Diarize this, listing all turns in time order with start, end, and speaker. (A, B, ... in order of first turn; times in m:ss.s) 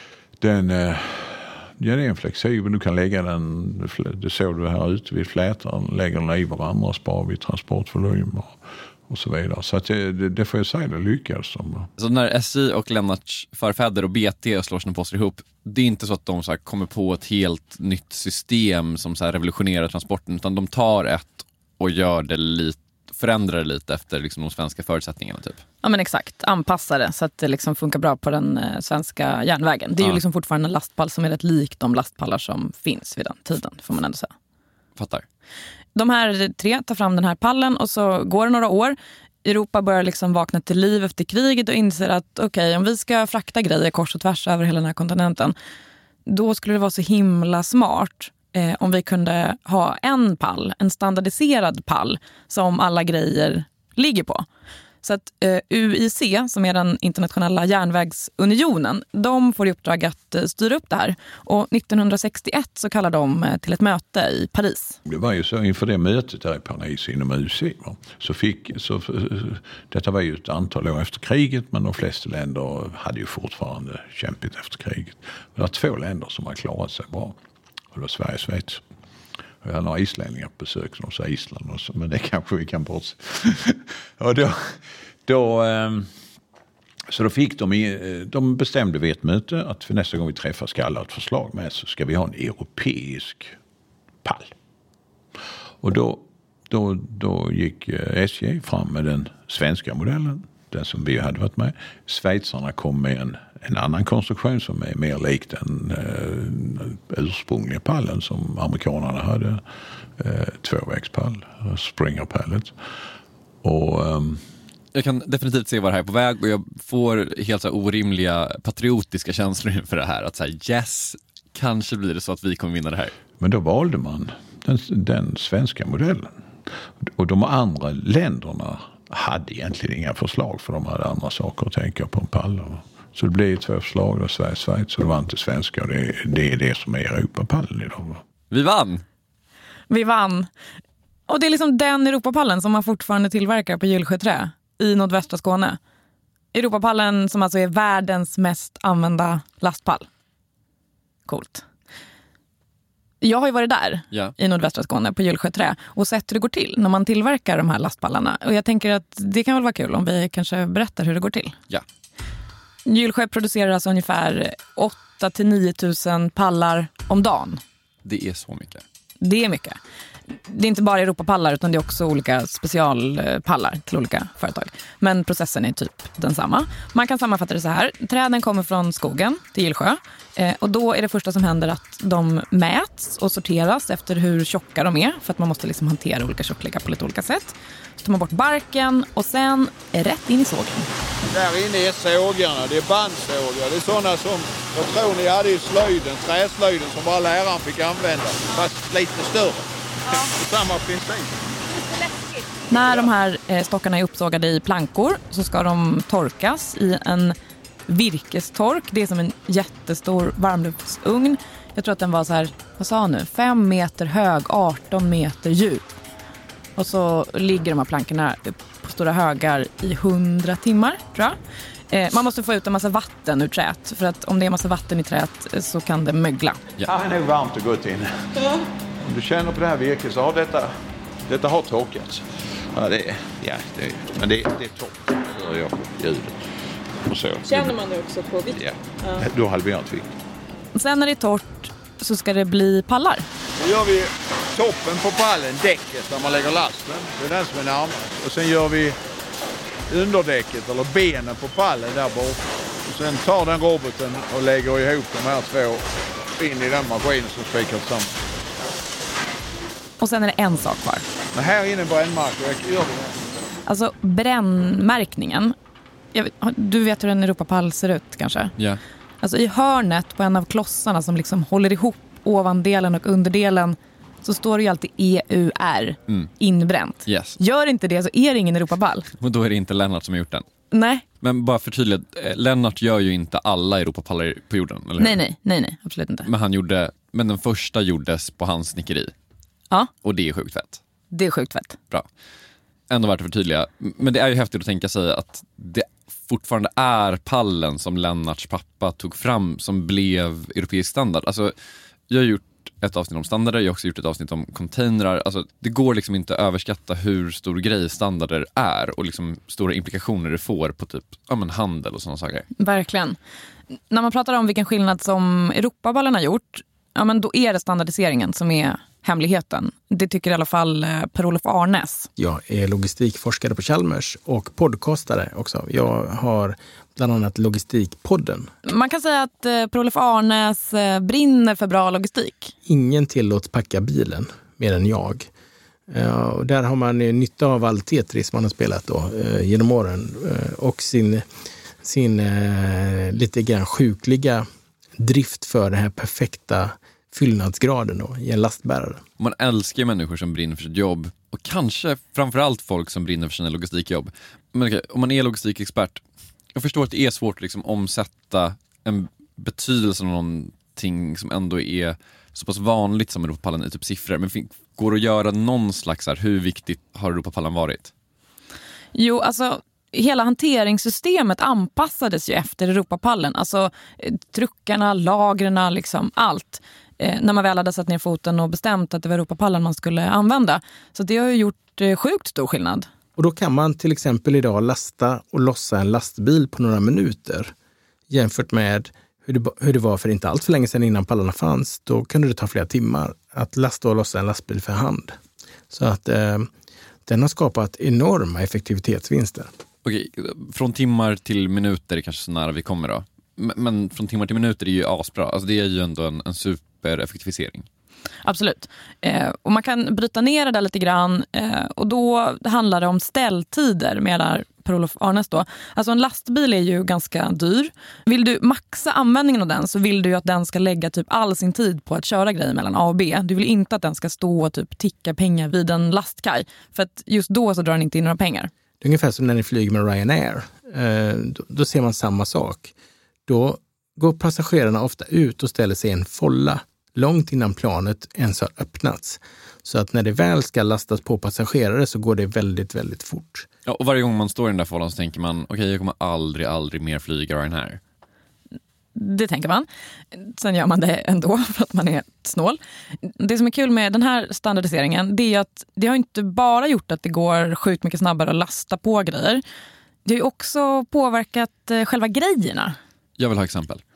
0:00.4-0:11.9 A
0:12.0-0:25.6 B
0:25.8-0:34.3 C
0:35.0-0:35.2 B
0:35.9-0:45.6 C
0:46.2-0:54.4 C
0:55.0-1:05.0 C
1:05.0-1:17.4 A
1:17.9-1:18.8 A
1:19.6-1:26.1 A
1:27.1-1:33.6 A
1:34.2-1:34.5 A
1:35.8-1:49.6 A
1:50.2-1:52.7 A
1:53.6-1:54.4 A
1:54.9-2:03.1 B
2:03.4-2:06.4 A
2:07.0-2:18.2 A
2:18.5-2:19.0 B
2:19.9-2:20.5 C
2:21.3-2:25.8 C
2:26.5-2:30.1 C
2:31.3-2:31.6 C
2:33.2-2:41.6 C
2:42.8-2:47.6 C
2:48.0-2:48.8 B
2:49.2-2:49.8 C
2:50.5-3:10.9 C
3:11.3-3:21.3 D
3:22.7-3:27.4 C
3:22.7-3:23.1 D
3:27.9-3:35.9 C
3:36.8-3:41.3 C
3:41.9-3:46.6 C
3:46.8-3:48.1 A
3:49.0-3:50.7 A
3:51.3-3:56.4 A
3:57.0-3:57.8 A
3:57.4-3:59.2 C
3:58.5-4:00.1 A
4:00.7-4:03.3 C
4:03.6-4:09.0 D
4:09.9-4:15.8 D
4:16.4-4:18.1 D
4:20.0-4:21.0 C
4:21.3-4:23.1 D
4:23.7-4:25.5 C
4:26.1-4:28.5 C
4:29.2-4:39.1 C
4:37.0-4:37.4 B
4:39.2-4:40.4 B
4:40.7-4:41.0 C
4:41.2-4:45.2 B
4:45.0-4:46.3 C
4:46.2-4:49.1 B
4:50.0-4:50.8 B
4:51.1-4:51.8 C
4:52.9-5:01.5 B
5:02.1-5:12.4 B
5:12.6-5:13.2 C
5:13.9-5:22.1 C
5:22.2-5:28.5 E
5:28.6-5:32.5 C
5:32.6-5:35.3 E
5:35.9-5:41.2 E
5:41.8-5:44.4 E
5:45.0-5:49.0 E
5:49.2-5:56.0 B
5:56.5-6:07.9 B
6:08.9-6:22.9 C
6:23.2-6:27.5 E
6:28.1-6:35.2 E
6:35.7-6:36.5 E
6:37.0-6:39.5 E
6:39.8-6:47.6 B
6:48.2-7:08.5 C
7:08.8-7:12.7 E
7:13.3-7:23.5 E
7:23.6-7:27.8 B
7:28.9-7:39.4 C
7:40.0-7:42.8 C
7:43.2-7:43.8 B